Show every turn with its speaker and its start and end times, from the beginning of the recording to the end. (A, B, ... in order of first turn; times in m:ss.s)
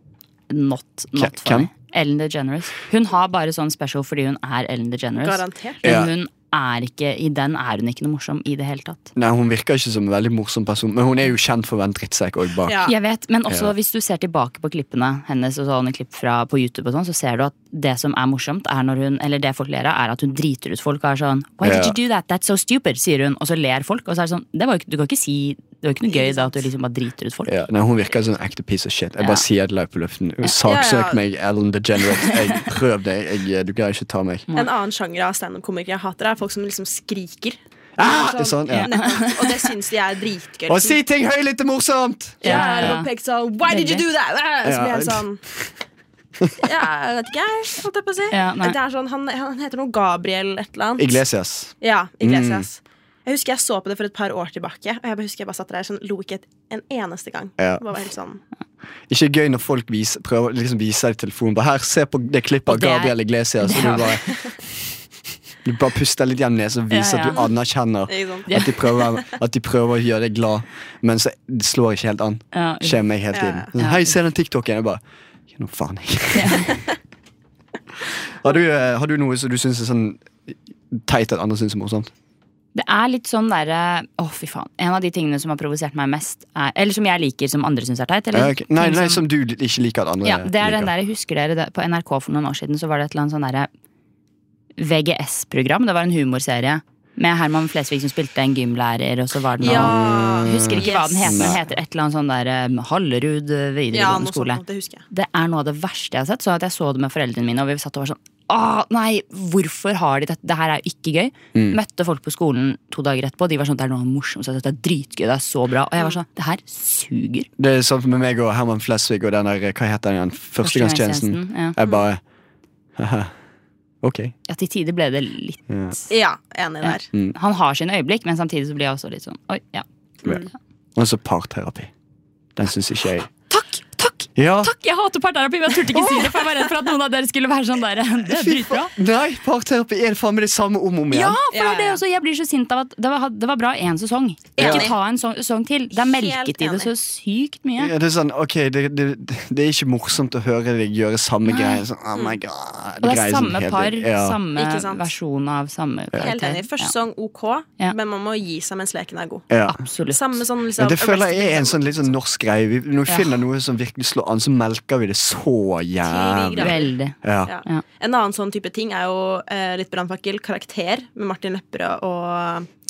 0:00.5-0:09.1 A
0:01.2-0:01.7 B
0:05.2-0:05.8 C
0:05.8-0:06.1 B
0:09.2-0:12.8 B
0:12.7-0:13.0 C
0:12.8-0:27.6 A
0:21.6-0:22.0 B
0:26.1-0:26.6 C
0:27.5-0:34.5 B
0:30.6-0:31.2 C
0:34.5-0:41.0 C
0:38.0-0:38.9 B
0:38.7-0:39.5 A
0:40.7-0:43.0 B
0:42.4-0:45.4 C
0:42.4-0:43.1 A
0:43.7-0:44.0 A
0:44.6-0:45.7 B
0:46.6-0:51.2 C
0:48.3-0:48.8 A
0:51.0-0:52.7 B
0:51.8-0:58.4 C
0:59.1-1:04.3 B
1:02.7-1:04.1 A
1:05.6-1:15.0 B
1:06.9-1:07.4 A
1:08.1-1:08.5 C
1:08.5-1:08.8 A
1:12.5-1:13.0 A
1:13.3-1:13.7 C
1:13.8-1:14.1 A
1:15.5-1:16.7 B
1:16.3-1:16.8 A
1:18.4-1:22.1 B
1:22.8-1:29.2 A
1:28.3-1:30.9 B
1:30.2-1:33.7 A
1:34.8-1:57.5 A
1:39.6-1:41.6 C
1:39.6-1:41.6 B
1:43.9-1:45.0 C
1:57.6-2:02.2 B
2:00.6-2:01.8 A
2:03.0-2:03.3 B
2:04.0-2:04.3 B
2:04.5-2:05.9 A
2:05.7-2:06.0 B
2:06.1-2:07.1 C
2:06.8-2:09.9 A
2:11.0-2:11.9 B
2:12.6-2:13.3 B
2:13.5-2:18.9 A
2:14.4-2:14.7 B
2:18.3-2:21.4 B
2:21.1-2:27.9 A
2:21.5-2:22.0 C
2:24.6-2:25.0 C
2:24.6-2:24.9 B
2:26.1-2:26.9 C
2:27.8-2:34.4 B
2:31.5-2:31.8 A
2:33.0-2:36.9 A
2:34.5-2:35.1 C
2:36.2-2:39.5 C
2:39.5-2:39.8 B
2:39.7-2:40.3 A
2:40.1-2:42.0 C
2:40.8-2:47.5 B
2:46.0-2:46.9 C
2:46.6-2:47.2 A
2:47.4-2:52.7 C